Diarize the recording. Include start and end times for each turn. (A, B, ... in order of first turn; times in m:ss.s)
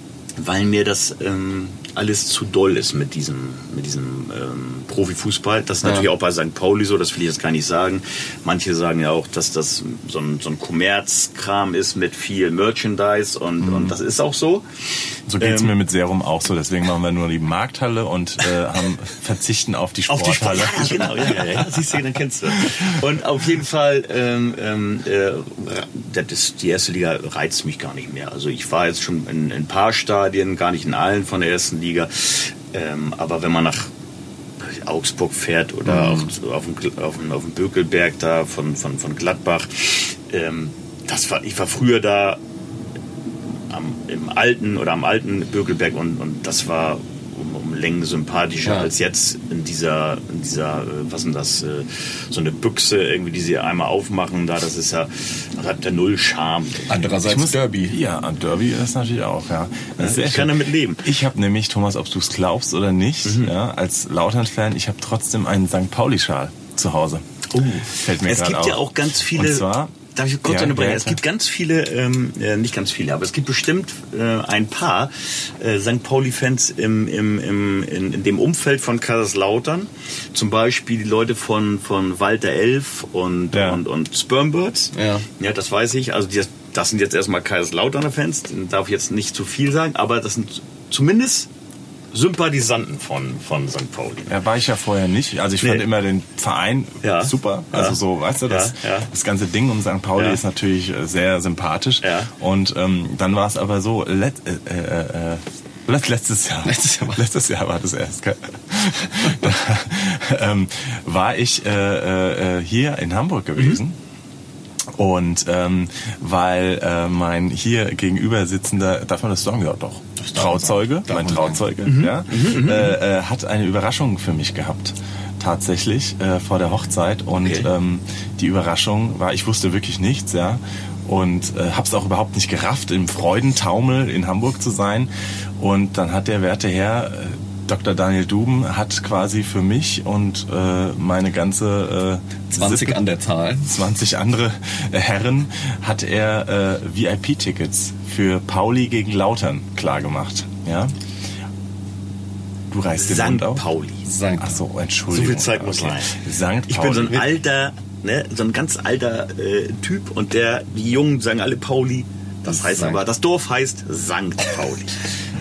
0:00.4-0:15.7 A
0:15.3-0:21.7 B
0:20.1-0:33.9 A
0:34.6-0:42.4 A
0:43.7-0:57.0 A
0:48.6-0:48.9 C
0:56.9-0:58.0 C
0:57.2-1:07.2 B
1:00.0-1:01.1 A
1:03.2-1:03.5 A
1:07.5-1:31.5 A
1:07.9-1:09.9 B
1:10.5-1:11.2 B
1:23.5-1:23.8 B
1:24.9-1:25.3 C
1:32.1-1:34.3 A
1:34.3-1:54.0 B
1:35.6-1:35.9 A
1:37.0-1:39.1 A
1:40.2-1:40.4 A
1:42.0-1:42.3 A
1:46.7-1:47.2 C
1:55.0-2:23.0 B
2:00.3-2:01.6 C
2:01.8-2:03.0 A
2:07.4-2:07.7 A
2:22.5-2:23.7 C
2:23.6-2:30.9 B
2:32.7-2:33.6 B
2:33.0-2:34.0 A
2:34.0-2:34.6 C
2:34.4-2:37.3 B
2:35.1-2:45.0 A
2:42.5-2:43.0 C